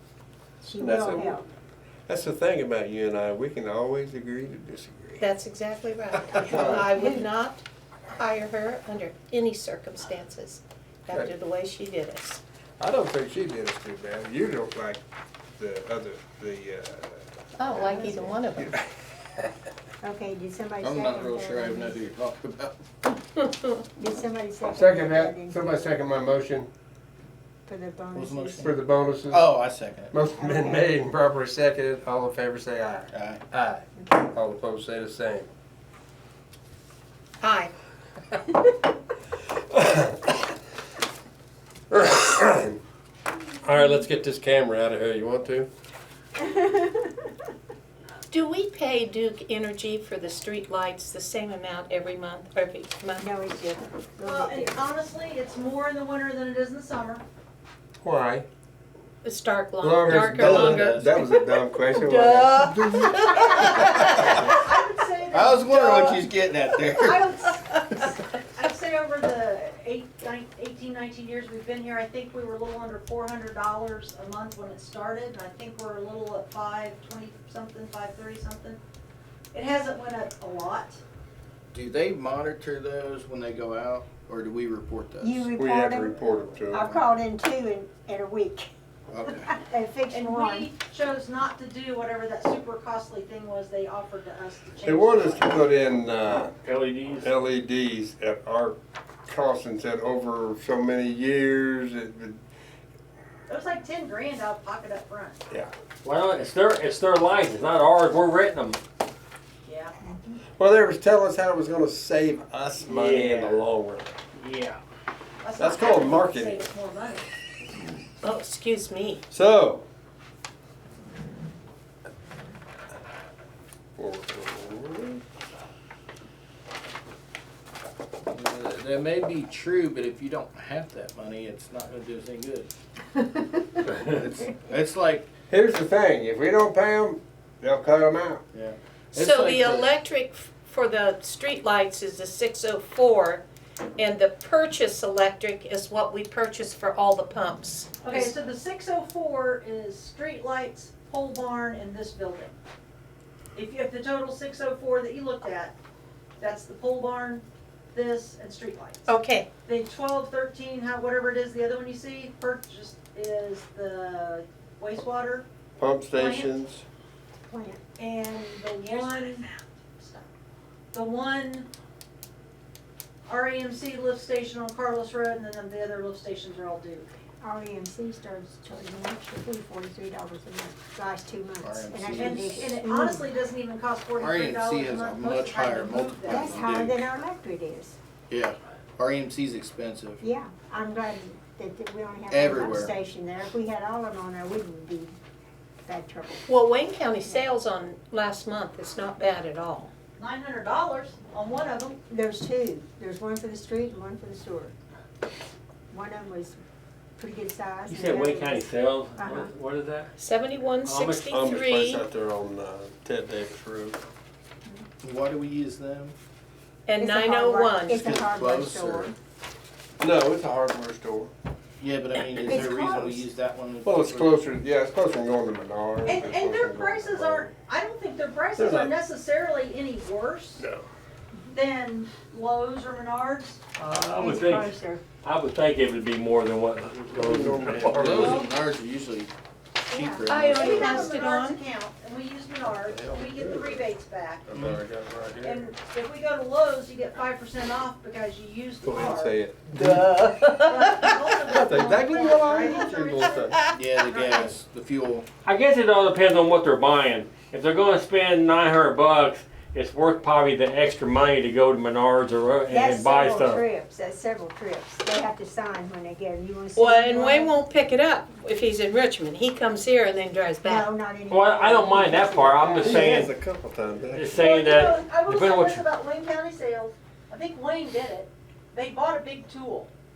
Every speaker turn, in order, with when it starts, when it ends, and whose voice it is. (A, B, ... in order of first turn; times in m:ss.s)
0:00.6-0:01.4 A
0:00.8-0:01.4 B
0:02.1-0:05.3 B
0:05.2-0:07.6 C
0:06.3-0:06.9 B
0:06.8-0:07.2 A
0:08.2-0:12.4 C
0:12.8-0:15.0 B
0:15.6-0:18.9 B
0:17.6-0:18.7 C
0:17.8-0:18.3 A
0:20.0-0:22.0 A
0:20.8-0:22.8 D
0:24.0-0:25.9 A
0:24.7-0:26.7 B
0:27.7-0:28.7 A
0:28.2-0:28.8 D
0:28.6-0:29.5 B
0:29.3-0:30.1 D
0:30.1-0:35.5 B
0:33.1-0:33.4 D
0:37.4-0:37.7 C
0:39.7-0:40.3 B
0:41.9-0:42.8 B
0:43.6-0:45.7 B
0:46.4-0:47.1 A
0:48.3-0:53.3 C
0:53.2-0:54.8 A
0:54.2-0:57.2 E
0:58.0-0:58.5 B
0:59.2-1:04.4 C
0:59.8-1:03.6 B
1:00.1-1:01.1 D
1:03.4-1:03.8 E
1:04.3-1:07.7 E
1:05.3-1:07.3 D
1:08.5-1:18.8 E
1:19.5-1:21.0 E
1:21.7-1:25.5 D
1:25.2-1:26.2 A
1:25.6-1:27.0 B
1:26.7-1:28.7 A
1:29.1-1:29.5 D
1:29.4-1:30.7 A
1:30.1-1:35.6 E
1:34.8-1:36.5 B
1:36.6-1:37.3 F
1:37.2-1:42.4 B
1:43.5-1:45.4 E
1:46.0-1:48.8 F
1:49.6-1:49.9 E
1:50.0-1:50.4 A
1:50.6-1:54.2 B
1:52.8-1:53.6 F
1:54.4-1:54.8 F
1:55.4-1:57.2 E
1:55.6-1:56.7 B
1:58.2-1:59.2 C
1:59.3-1:59.8 B
2:04.0-2:05.2 B
2:08.3-2:12.7 D
2:13.9-2:15.3 D
2:15.5-2:18.4 B
2:18.5-2:19.9 D
2:19.2-2:23.4 C
2:24.0-2:28.3 C
2:28.0-2:32.6 E
2:33.6-2:35.8 E
2:36.4-2:39.1 E
2:39.1-2:39.5 C
2:39.6-2:45.5 E
2:45.8-2:46.8 B
2:46.1-2:46.5 E
2:47.5-2:47.8 A
2:48.0-2:50.3 E
2:50.9-2:51.7 E
2:53.3-2:57.1 E
2:57.4-3:03.3 A
3:01.6-3:02.5 D
3:02.2-3:06.6 E
3:04.2-3:07.1 D
3:06.3-3:08.0 A
3:08.3-3:10.2 D
3:10.2-3:15.2 A
3:12.3-3:12.9 D
3:15.8-3:16.5 A
3:16.5-3:19.9 C
3:20.2-3:22.0 E
3:22.1-3:24.7 A
3:25.9-3:26.6 A
3:27.2-3:28.7 A
3:27.9-3:30.1 F
3:29.2-3:29.5 A
3:30.2-3:32.0 C
3:30.8-3:31.5 F
3:31.3-3:34.0 B
3:35.0-3:36.2 D
3:36.9-3:38.0 C
3:37.0-3:39.1 A
3:37.9-3:39.1 D
3:40.0-3:41.3 B
3:41.8-3:44.4 D
3:42.4-3:43.2 A
3:43.8-3:47.5 B
3:46.0-3:50.6 E
3:48.6-3:48.9 B
3:50.6-3:50.9 B
3:51.5-3:53.6 E
3:53.8-3:58.3 F
3:54.2-3:55.0 A
3:57.1-3:58.5 B
3:57.6-3:59.3 D
3:59.8-4:00.8 D
3:59.9-4:00.5 A
4:00.3-4:01.6 C
4:00.5-4:04.5 E
4:02.9-4:03.9 B
4:04.5-4:05.7 B
4:05.4-4:09.4 E
4:08.8-4:10.5 B
4:09.9-4:11.2 C
4:10.7-4:14.6 E
4:11.5-4:13.6 B
4:13.7-4:15.3 D
4:15.4-4:23.6 F
4:22.7-4:27.6 A
4:26.8-4:30.9 C
4:30.6-4:33.2 A
4:31.3-4:33.3 F
4:32.8-4:34.5 B
4:34.1-4:35.8 F
4:34.4-4:39.9 E